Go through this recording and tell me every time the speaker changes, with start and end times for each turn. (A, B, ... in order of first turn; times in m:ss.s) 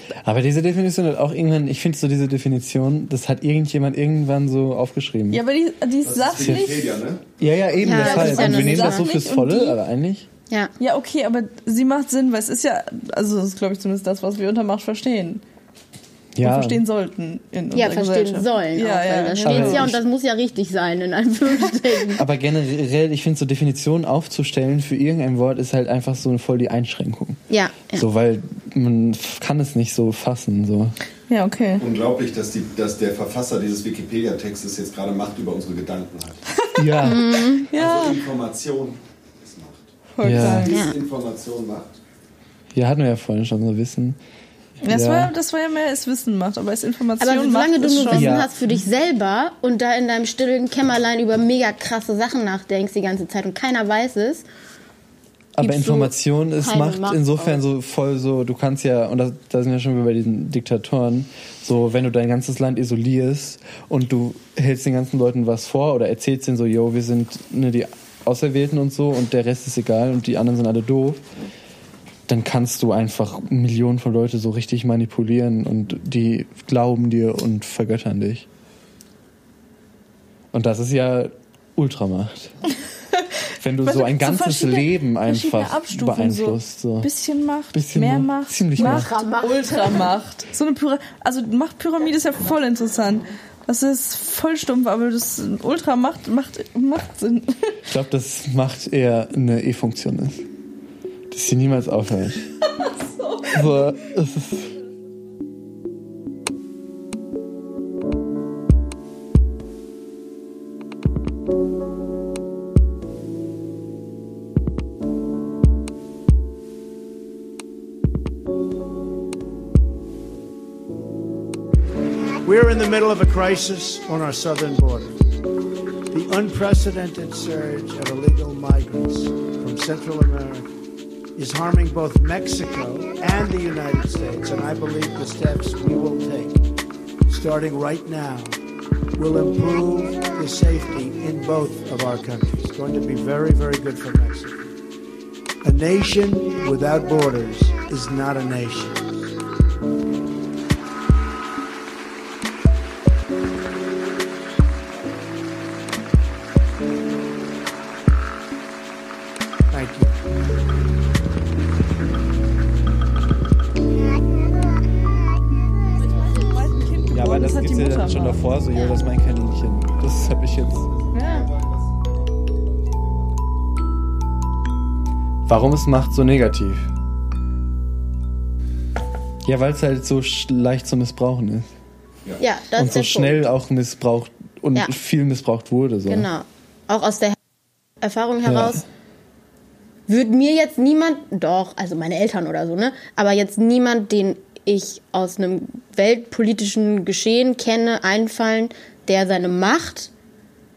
0:00.2-0:05.4 A
0:05.3-0:07.0 B
0:06.0-0:08.1 C
0:06.4-0:06.8 A
0:07.4-0:10.3 A
0:07.8-0:09.1 D
0:07.9-0:09.8 B
0:10.8-0:15.4 B
0:16.4-0:16.8 A
0:16.4-0:19.9 B
0:17.7-0:22.2 D
0:19.4-0:20.0 A
0:22.2-0:27.4 A
0:27.5-0:28.1 D
0:28.0-0:31.0 A
0:31.3-0:31.8 B
0:31.8-0:36.4 C
0:36.7-0:37.2 B
0:36.8-0:37.4 A
0:37.0-0:37.7 D
0:37.7-0:38.2 B
0:37.7-0:42.0 C
0:40.1-0:40.8 B
0:40.2-0:40.7 A
0:40.7-0:41.0 D
0:42.7-0:44.2 A
0:44.8-0:45.3 A
0:44.8-0:48.3 B
0:47.2-0:54.4 D
0:48.1-0:48.5 A
0:55.6-1:11.2 A
0:55.6-0:57.6 D
1:12.3-1:18.5 A
1:20.5-1:22.5 A
1:23.6-1:27.1 A
1:23.8-1:37.8 B
1:27.7-1:29.1 A
1:28.8-1:30.1 D
1:37.9-1:40.4 A
1:41.3-1:42.5 A
1:42.7-1:43.9 B
1:43.5-1:44.7 A
2:02.4-2:05.2 E
2:06.1-2:10.7 E
2:11.4-2:16.6 E
2:17.3-2:18.6 E
2:19.2-2:24.7 E
2:25.6-2:29.1 E
2:39.7-2:40.2 E
2:46.2-2:48.4 B
2:47.1-2:50.9 A
2:50.0-2:53.4 C
2:51.1-2:51.5 B
2:55.5-2:56.9 A
2:59.4-3:01.7 A
3:02.4-3:03.5 D
3:02.8-3:06.3 A
3:06.1-3:07.4 D
3:08.0-3:08.8 D
3:08.4-3:08.8 A
3:10.1-3:20.1 D